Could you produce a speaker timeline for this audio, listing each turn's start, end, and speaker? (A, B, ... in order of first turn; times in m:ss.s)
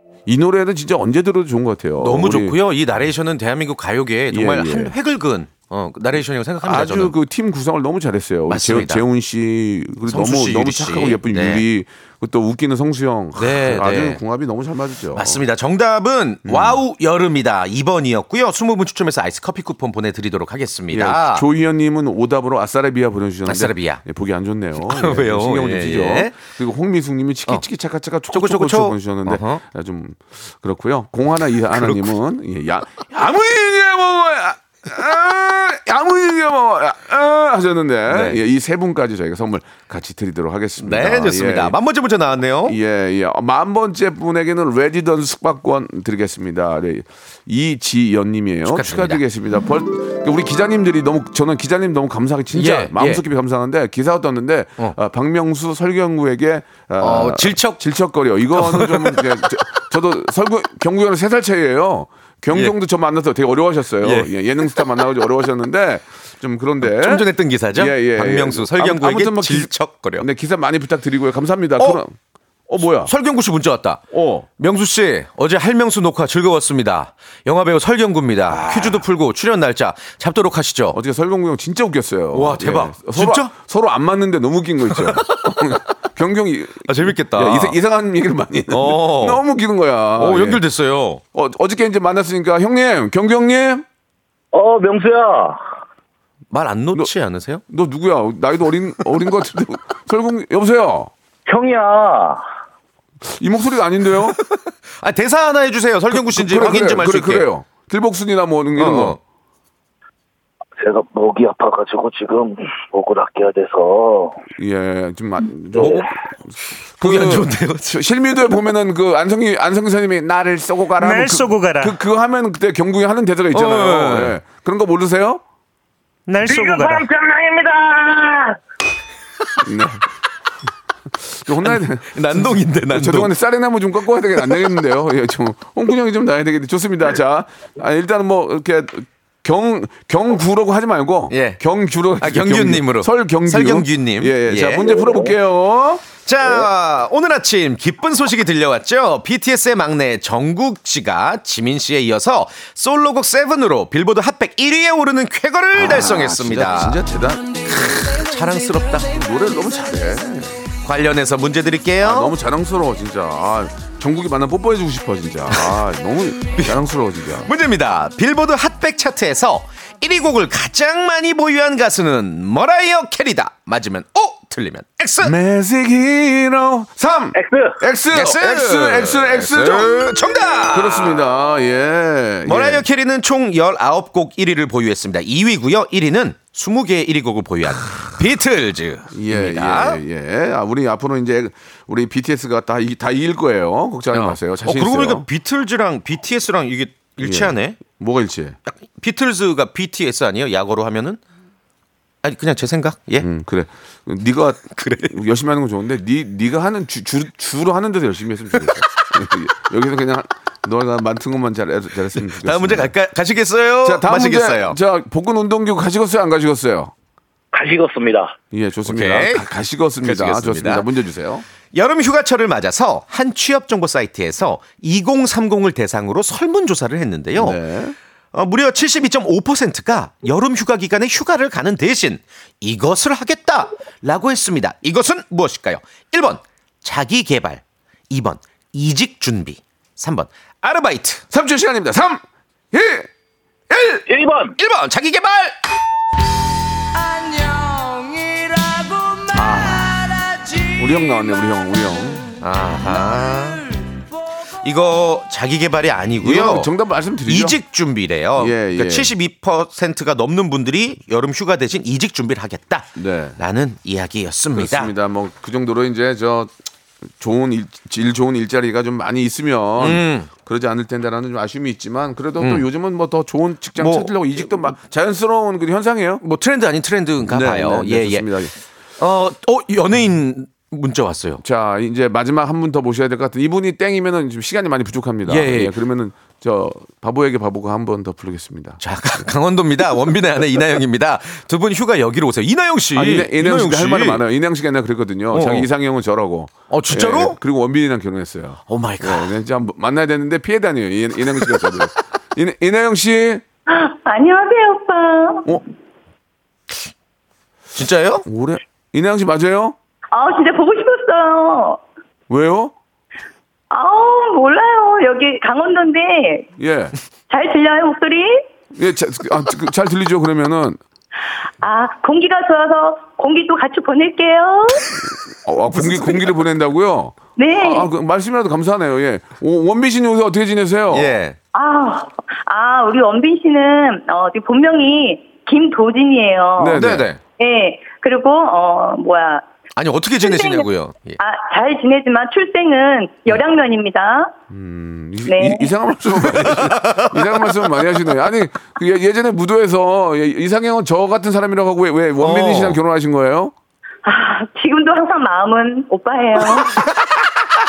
0:00.3-0:02.6 A
0:02.0-0:07.1 B
0:04.3-0:04.9 A
0:06.6-0:15.4 A
0:08.5-0:09.0 B
0:10.1-0:11.6 B
0:13.4-0:14.2 B
0:15.2-0:21.4 B
0:16.5-0:16.8 A
0:20.9-0:41.8 A
0:23.5-0:24.0 B
0:24.8-0:26.4 B
0:28.3-0:29.6 B
0:31.7-0:32.1 B
0:38.1-0:38.4 B
0:40.8-0:42.8 B
0:42.7-1:12.1 A
0:48.7-0:49.2 B
0:52.5-0:53.2 B
0:57.0-0:57.8 B
0:58.6-0:59.4 B
1:04.0-1:04.8 B
1:06.8-1:10.3 B
1:12.7-1:13.1 A
1:13.0-1:14.0 B
1:14.1-1:14.5 A
1:14.6-1:21.0 B
1:18.5-1:19.0 A
1:20.9-1:30.6 A
1:22.3-1:23.5 B
1:24.9-1:25.7 B
1:26.9-1:27.8 B
1:28.7-1:29.4 B
1:30.2-1:31.2 B
1:31.3-1:33.8 A
1:34.5-1:35.6 C
1:36.5-1:37.6 B
1:37.7-1:41.1 A
1:41.5-1:42.4 C
1:43.2-1:44.4 A
1:44.5-1:47.5 B
1:46.1-1:49.2 A
1:48.8-1:49.2 B
1:50.8-1:54.4 C
1:54.6-2:05.4 A
1:55.7-1:56.0 C
1:57.0-1:58.0 B
2:01.0-2:02.0 D
2:03.5-2:04.4 B
2:06.3-2:07.0 D
2:06.4-2:08.6 C
2:09.6-2:10.0 A
2:11.3-2:26.0 A
2:11.6-2:13.3 B
2:21.3-2:21.6 B
2:22.2-2:25.0 B
2:24.9-2:25.4 C
2:26.3-2:37.0 B
2:35.7-2:37.5 A
2:37.7-2:39.1 B
2:39.1-2:40.5 A
2:40.8-2:42.3 B
2:42.0-2:47.5 A
2:47.4-2:55.4 B
2:55.2-3:00.0 A
2:57.3-2:57.8 C
2:58.1-3:01.2 B
3:00.7-3:02.9 A
3:02.5-3:10.0 B
3:09.1-3:15.3 A
3:14.1-3:17.8 B
3:17.2-3:18.6 A
3:18.7-3:21.2 B
3:22.2-3:23.3 B
3:23.2-3:32.9 A
3:24.7-3:25.2 B
3:32.2-3:34.8 B
3:33.8-3:36.9 A
3:37.5-3:38.4 C
3:38.5-3:41.4 A
3:38.9-3:39.5 B
3:40.0-3:40.9 B
3:41.7-3:47.6 B
3:47.4-3:48.0 A
3:48.3-4:01.2 B
4:01.3-4:03.1 A
4:03.7-4:04.0 A
4:04.1-4:04.6 C
4:04.6-4:05.6 B
4:07.5-4:08.4 D
4:09.4-4:09.9 B
4:09.4-4:09.8 A
4:10.8-4:12.3 A
4:12.4-4:13.6 B
4:14.6-4:16.7 B
4:16.2-4:17.6 A
4:17.3-4:24.9 B
4:18.4-4:19.1 A
4:23.0-4:23.4 A
4:24.6-4:26.5 A
4:27.2-4:36.2 A
4:29.8-4:30.3 B
4:32.4-4:32.7 B
4:33.8-4:34.1 B
4:36.2-4:38.5 B
4:37.2-4:38.5 A
4:39.0-4:41.4 B
4:41.4-4:48.8 A
4:45.3-4:45.7 B
4:48.8-4:54.2 B
4:52.9-5:03.4 A
4:55.3-4:55.7 B
4:56.7-4:57.4 B
4:58.7-4:59.3 B
5:03.7-5:05.6 E
5:07.8-5:08.3 B
5:08.3-5:09.8 A
5:10.1-5:11.8 E
5:12.3-5:12.7 A
5:13.7-5:16.5 E
5:16.6-5:16.9 A
5:17.3-5:18.5 E
5:18.8-5:20.8 A
5:21.6-5:25.0 E
5:25.4-5:31.1 A
5:25.8-5:26.2 E
5:27.4-5:27.9 E
5:30.9-5:31.4 B
5:31.5-5:36.8 E
5:36.6-5:37.1 A
5:36.8-5:37.2 B
5:37.4-5:39.4 E
5:39.8-5:41.2 B
5:40.2-5:40.7 E
5:41.2-5:44.3 E
5:44.5-5:53.5 A
5:45.3-5:45.7 E
5:46.4-5:47.6 B
5:52.2-5:52.8 B
5:54.0-5:56.8 E